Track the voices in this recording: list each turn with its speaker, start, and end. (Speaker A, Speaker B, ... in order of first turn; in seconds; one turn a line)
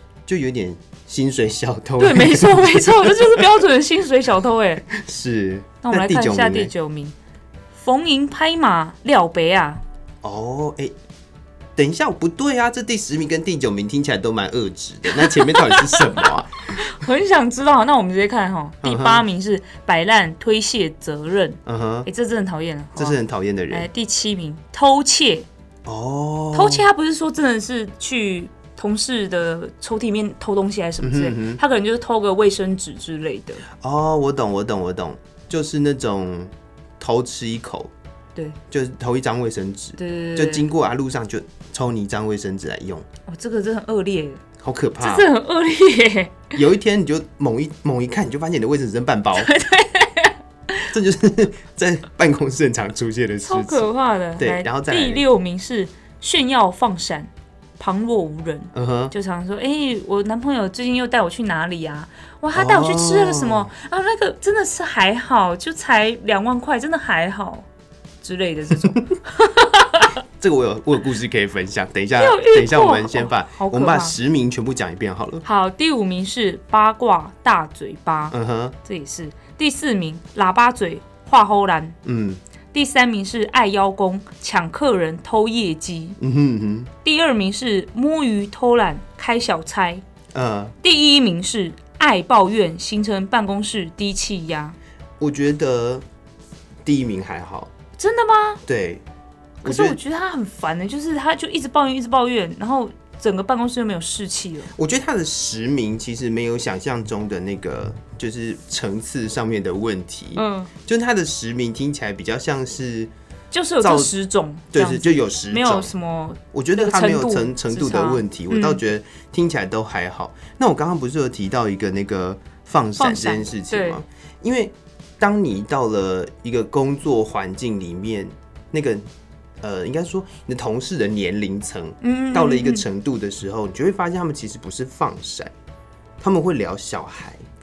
Speaker A: 0.2-3.5
Speaker B: 2.0-4.9
Speaker A: 4.9-6.7
Speaker B: 5.8-7.2
Speaker B: 7.7-9.8
Speaker A: 10.2-10.9
Speaker A: 11.8-16.6
Speaker B: 15.1-23.2
Speaker A: 18.8-19.2
Speaker A: 21.7-22.1
Speaker A: 22.9-23.9
Speaker B: 23.7-25.5
Speaker A: 25.9-26.9
Speaker B: 26.5-33.6
Speaker A: 31.0-31.6
Speaker A: 33.7-37.9
Speaker A: 38.7-43.1
Speaker B: 40.0-40.7
Speaker B: 43.3-44.4
Speaker A: 44.6-45.3
Speaker B: 45.0-46.6
Speaker A: 46.5-49.5
Speaker B: 49.4-50.9
Speaker A: 50.9-53.8
Speaker B: 53.4-67.7
Speaker A: 54.4-55.2
Speaker A: 58.7-59.1
Speaker A: 62.5-63.7
Speaker B: 68.2-70.1
Speaker A: 70.4-75.4
Speaker B: 72.2-74.2
Speaker B: 75.4-82.0
Speaker A: 78.3-78.8
Speaker A: 82.0-82.4
Speaker B: 82.7-86.2
Speaker A: 86.2-86.9
Speaker B: 87.0-90.0
Speaker A: 90.3-90.7
Speaker B: 90.8-94.8
Speaker A: 95.2-96.0
Speaker A: 96.8-97.7
Speaker B: 98.0-98.6
Speaker A: 98.7-99.0
Speaker B: 99.6-104.7
Speaker A: 99.6-100.0
Speaker A: 104.7-113.1
Speaker B: 110.3-110.7
Speaker B: 113.5-118.8
Speaker A: 113.8-114.1
Speaker A: 114.7-115.9
Speaker A: 116.5-129.1
Speaker B: 123.0-124.0
Speaker A: 129.6-135.5
Speaker B: 132.0-132.8
Speaker A: 136.2-137.4